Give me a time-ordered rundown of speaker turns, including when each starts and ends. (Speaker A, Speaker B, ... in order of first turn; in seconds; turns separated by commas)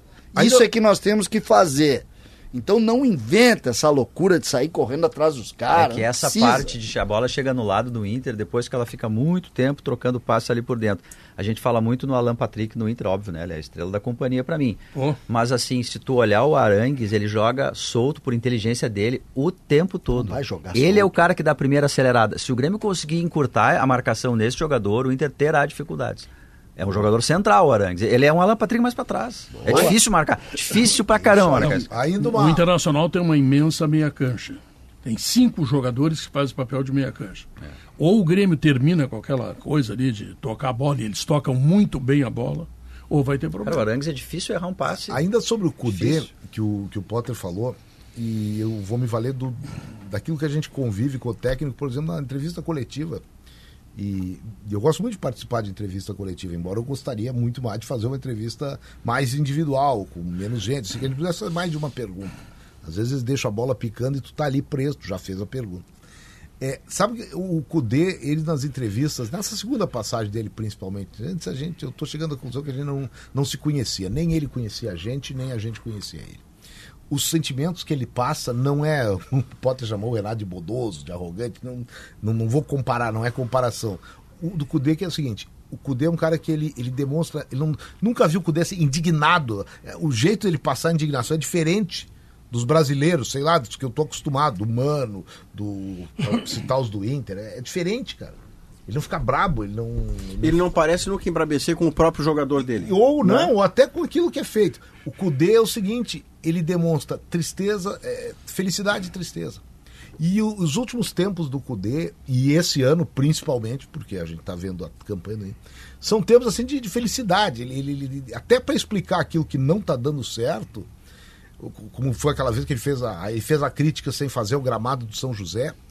Speaker A: 0.3-6.7, Speaker B: 0.3-0.6, Speaker C: 5.7-31.9, Speaker A: 20.1-21.1, Speaker A: 29.6-29.9, Speaker B: 29.7-29.9, Speaker B: 31.2-32.6, Speaker D: 31.6-37.5, Speaker D: 38.0-43.9, Speaker C: 43.6-45.2, Speaker B: 44.9-53.2, Speaker C: 45.9-46.3, Speaker B: 54.0-65.8, Speaker B: 66.6-76.4, Speaker B: 77.1-100.6, Speaker E: 100.4-103.5, Speaker B: 102.8-109.6, Speaker B: 110.2-120.9, Speaker B: 121.6-125.8